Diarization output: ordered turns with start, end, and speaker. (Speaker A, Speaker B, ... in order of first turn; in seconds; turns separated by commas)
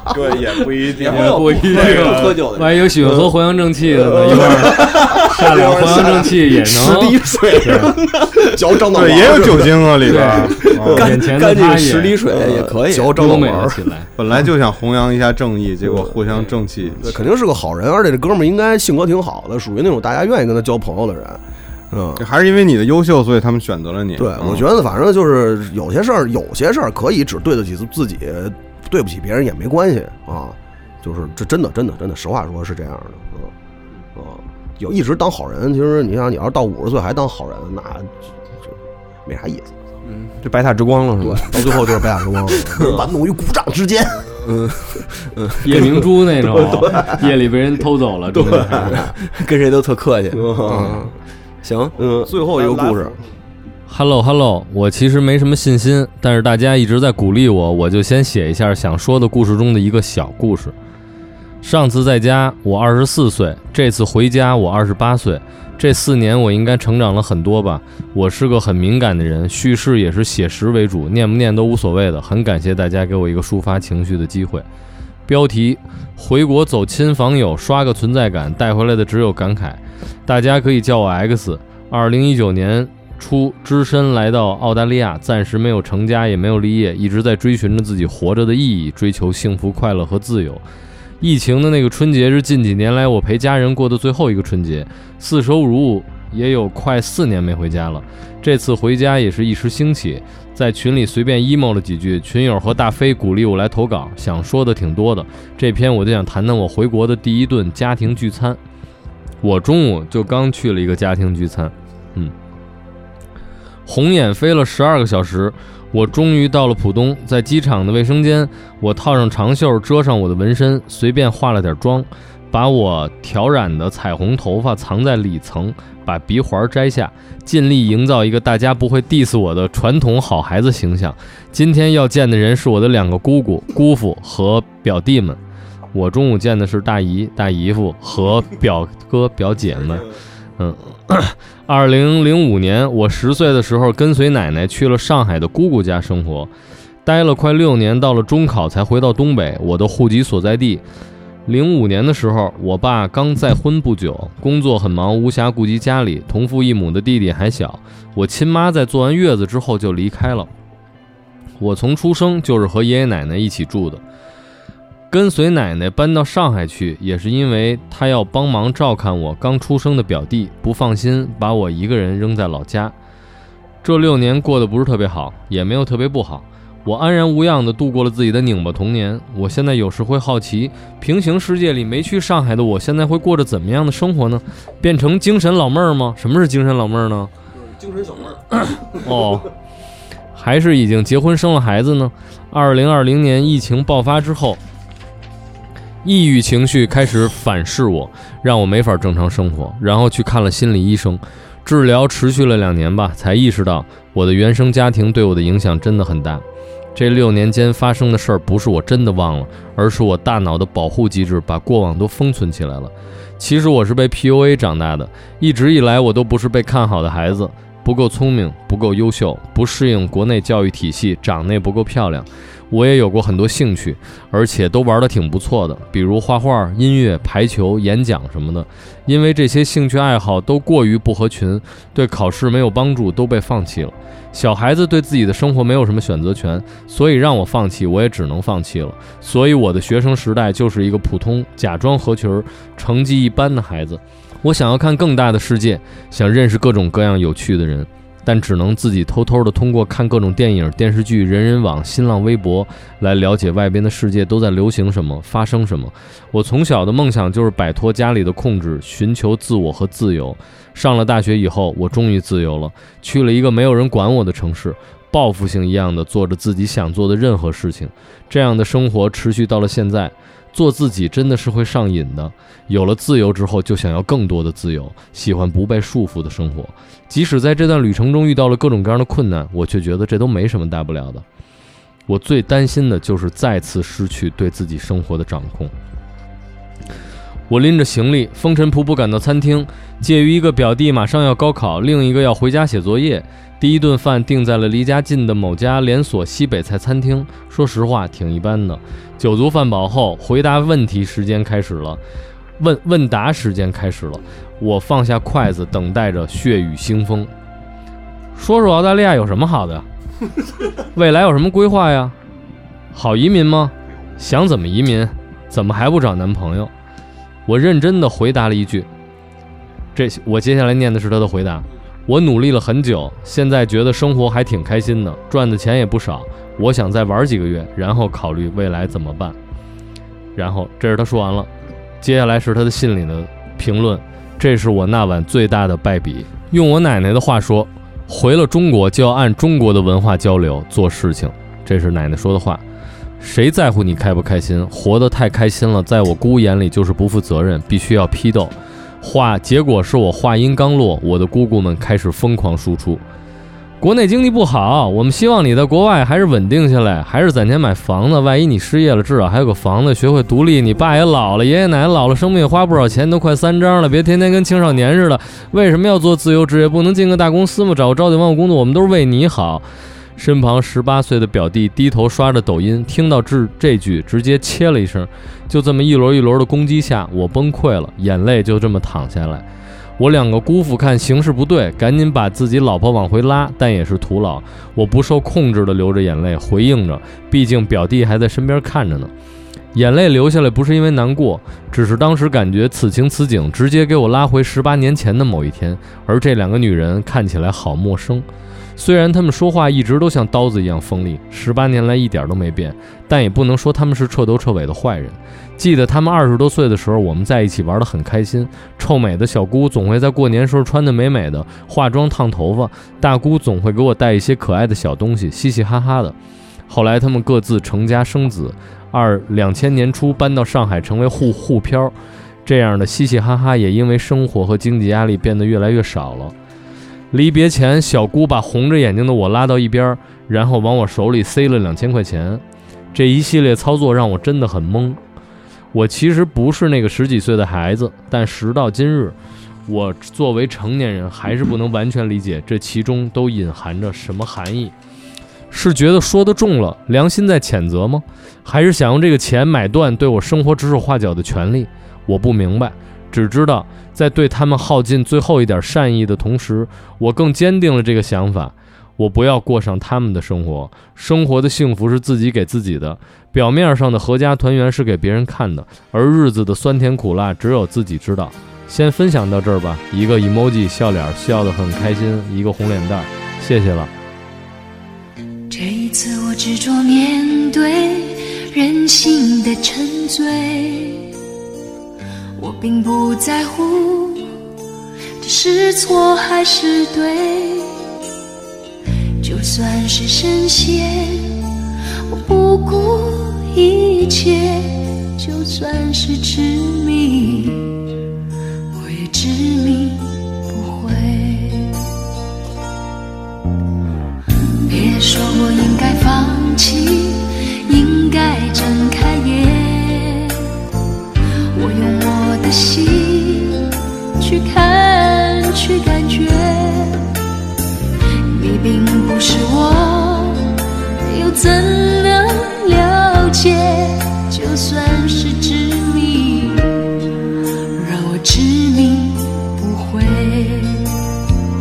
Speaker A: 0.1-3.2, Speaker B: 0.2-1.4, Speaker C: 1.0-8.0, Speaker D: 4.3-5.1, Speaker A: 4.5-8.8, Speaker D: 7.6-7.9, Speaker D: 8.4-11.1, Speaker B: 8.9-11.1, Speaker C: 10.0-12.2, Speaker A: 10.6-13.3, Speaker D: 12.3-13.8, Speaker C: 13.2-14.1, Speaker B: 14.2-17.1, Speaker D: 17.0-22.2, Speaker B: 22.2-24.7, Speaker D: 24.2-33.5, Speaker D: 34.1-39.8, Speaker A: 40.1-43.1, Speaker D: 41.2-44.5, Speaker A: 44.4-46.0, Speaker C: 45.6-49.0, Speaker D: 46.4-47.3, Speaker A: 48.3-53.2, Speaker D: 48.4-49.1, Speaker D: 50.3-51.1, Speaker D: 52.0-53.2, Speaker C: 53.9-60.7, Speaker C: 61.6-74.7, Speaker C: 75.3-90.6, Speaker C: 91.2-108.6, Speaker C: 109.4-112.3, Speaker C: 113.9-135.4, Speaker C: 135.9-140.1, Speaker C: 140.6-146.5, Speaker C: 147.1-150.8, Speaker C: 151.5-160.5, Speaker C: 161.6-164.0, Speaker C: 165.1-172.9, Speaker C: 173.8-187.3, Speaker D: 187.8-188.4, Speaker C: 188.6-189.5, Speaker C: 190.3-194.6, Speaker C: 196.0-206.4, Speaker C: 206.9-281.2, Speaker C: 282.1-285.7, Speaker C: 287.5-302.0, Speaker C: 302.6-307.3, Speaker C: 308.4-309.9, Speaker C: 310.9-312.2, Speaker C: 312.9-316.7, Speaker C: 317.5-318.9, Speaker C: 319.9-329.4, Speaker C: 330.4-331.5, Speaker C: 332.0-342.6, Speaker C: 343.2-353.0, Speaker C: 353.8-369.7, Speaker C: 370.2-379.5, Speaker C: 380.0-389.1, Speaker C: 389.7-398.3, Speaker C: 398.8-416.1, Speaker C: 416.7-421.9, Speaker C: 422.4-426.3, Speaker C: 427.1-432.4, Speaker C: 432.9-435.0, Speaker C: 435.7-439.1, Speaker C: 439.7-444.7, Speaker C: 445.5-473.9, Speaker E: 475.5-477.9, Speaker E: 478.5-480.9, Speaker E: 482.4-484.1, Speaker E: 485.2-487.6, Speaker E: 489.2-490.9, Speaker E: 492.1-494.3, Speaker E: 495.2-497.5, Speaker E: 498.8-500.0, Speaker E: 500.5-501.5, Speaker E: 504.7-507.0, Speaker E: 507.7-509.9, Speaker E: 511.6-513.5, Speaker E: 514.2-516.7, Speaker E: 518.3-520.2, Speaker E: 521.1-523.8, Speaker E: 524.3-526.5, Speaker E: 527.8-530.6